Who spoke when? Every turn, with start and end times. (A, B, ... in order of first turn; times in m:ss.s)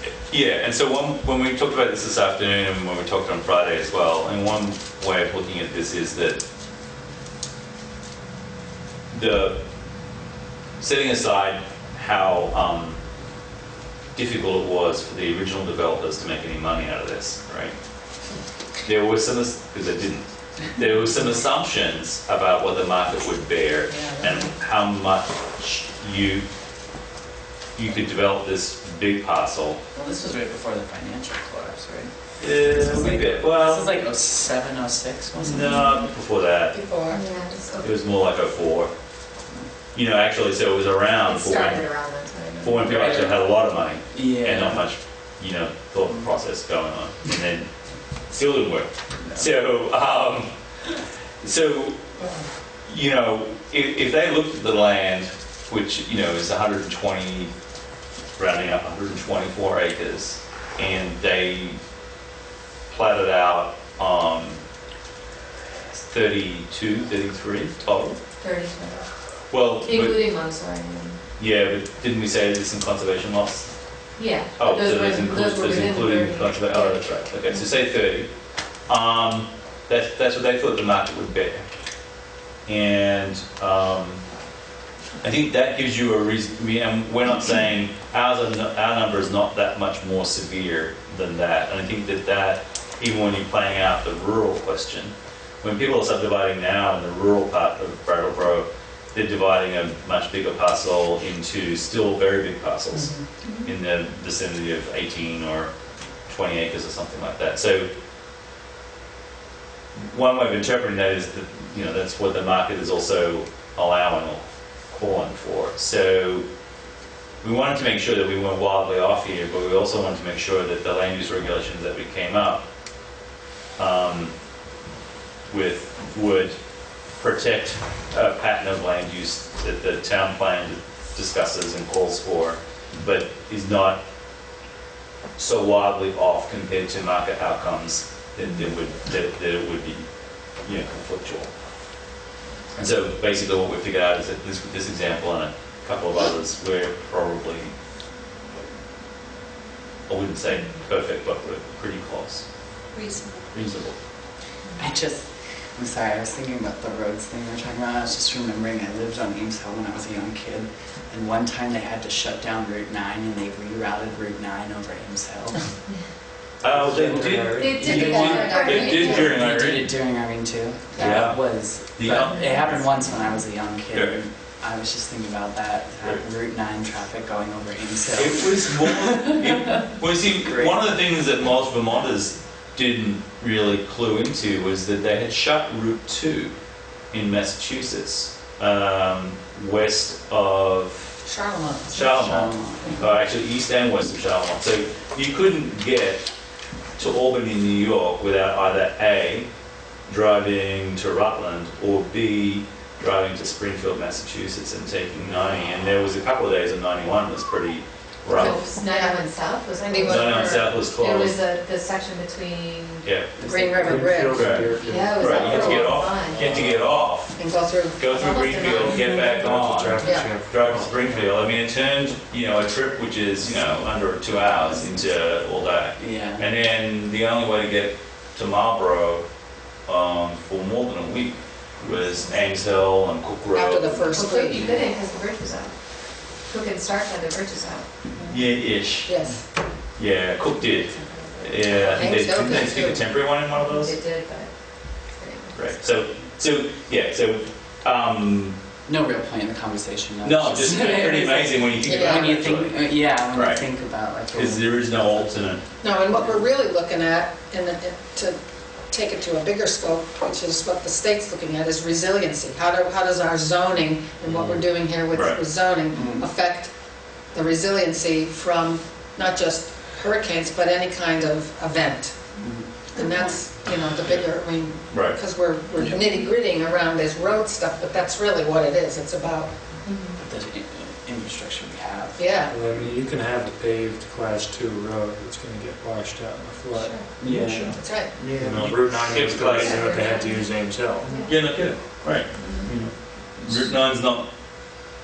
0:00.2-0:06.4 A
0:09.1-0:09.6 A
0:10.8-0:13.0 A
0:14.1-0:17.7 A
0:18.8-0:26.4 A
0:23.9-0:24.3 B
0:27.8-0:29.8 A
0:29.9-0:35.8 B
0:32.4-0:34.0 A
0:35.4-0:36.8 A
0:36.7-0:37.2 C
0:37.1-0:37.9 D
0:37.8-0:38.9 A
0:39.9-0:41.9 A
0:41.2-0:43.2 D
0:42.6-0:47.7 A
0:42.8-0:43.4 B
0:44.1-0:44.9 B
0:48.3-0:50.5 A
0:51.4-0:52.0 A
0:52.8-0:57.5 A
0:58.4-1:01.8 A
1:02.9-1:04.6 A
1:06.1-1:08.2 A
1:08.4-1:09.0 D
1:09.5-1:10.2 A
1:09.8-1:11.2 D
1:11.4-1:13.6 A
1:14.2-1:17.6 D
1:14.6-1:18.3 A
1:18.9-1:21.6 A
1:22.6-1:24.2 A
1:25.2-1:43.1 A
1:42.9-1:43.2 B
1:43.4-1:43.7 D
1:43.6-1:45.7 A
1:46.2-1:47.9 A
1:50.0-1:56.4 A
1:57.4-2:02.6 A
2:03.8-2:04.3 A
2:05.5-2:06.6 A
2:07.1-2:14.0 A
2:15.4-2:20.1 A
2:20.6-2:21.5 A
2:22.8-2:27.7 A
2:30.1-2:32.4 A
2:32.9-2:33.4 D
2:33.5-2:33.9 A
2:34.8-2:45.6 B
2:46.6-2:49.9 A
2:46.6-2:48.1 E
2:47.6-2:49.4 D
2:47.7-2:49.3 C
2:49.1-2:59.6 B
2:51.0-2:53.1 A
2:53.9-2:54.2 A
2:58.1-3:06.5 A
3:00.4-3:00.9 B
3:07.1-3:11.2 A
3:11.2-3:12.2 C
3:11.9-3:16.3 A
3:12.1-3:13.0 B
3:17.0-3:19.5 A
3:20.1-3:28.6 A
3:28.3-3:33.0 D
3:28.3-3:29.2 C
3:29.8-3:30.7 C
3:30.0-3:31.4 A
3:33.0-3:33.3 A
3:33.4-3:34.1 B
3:33.4-3:34.5 C
3:33.8-3:37.0 E
3:34.3-3:37.4 A
3:34.8-3:36.4 D
3:37.3-3:38.0 C
3:38.0-3:49.2 A
3:38.0-3:39.6 D
3:38.7-3:41.4 E
3:40.0-3:40.3 C
3:46.0-3:46.4 B
3:49.8-3:54.2 A
3:53.5-3:54.8 C
3:54.1-3:55.8 D
3:56.4-3:57.8 D
3:58.2-3:59.2 A
3:59.0-3:59.4 C
4:00.0-4:04.0 A
4:00.6-4:02.6 D
4:01.9-4:03.0 C
4:03.6-4:04.5 D
4:05.1-4:05.7 D
4:05.5-4:08.6 A
4:08.8-4:15.6 B
4:10.2-4:13.7 A
4:11.8-4:12.3 C
4:14.3-4:15.6 A
4:15.8-4:18.4 C
4:16.1-4:16.5 B
4:18.9-4:26.7 C
4:24.3-4:24.6 B
4:25.1-4:25.4 A
4:25.9-4:26.3 B
4:27.3-4:32.2 C
4:32.4-4:32.7 B
4:32.9-4:39.5 C
4:33.0-4:33.3 D
4:34.9-4:35.2 A
4:39.8-4:40.2 D
4:40.2-4:42.2 B
4:42.2-4:42.5 C
4:42.5-4:51.1 E
4:46.7-4:47.0 D
4:47.2-4:49.4 B
4:47.8-4:48.2 C
4:48.5-4:49.8 A
4:49.6-4:49.9 C
4:49.7-4:50.3 D
4:51.0-4:51.3 D
4:51.2-4:54.3 A
4:52.4-4:52.7 D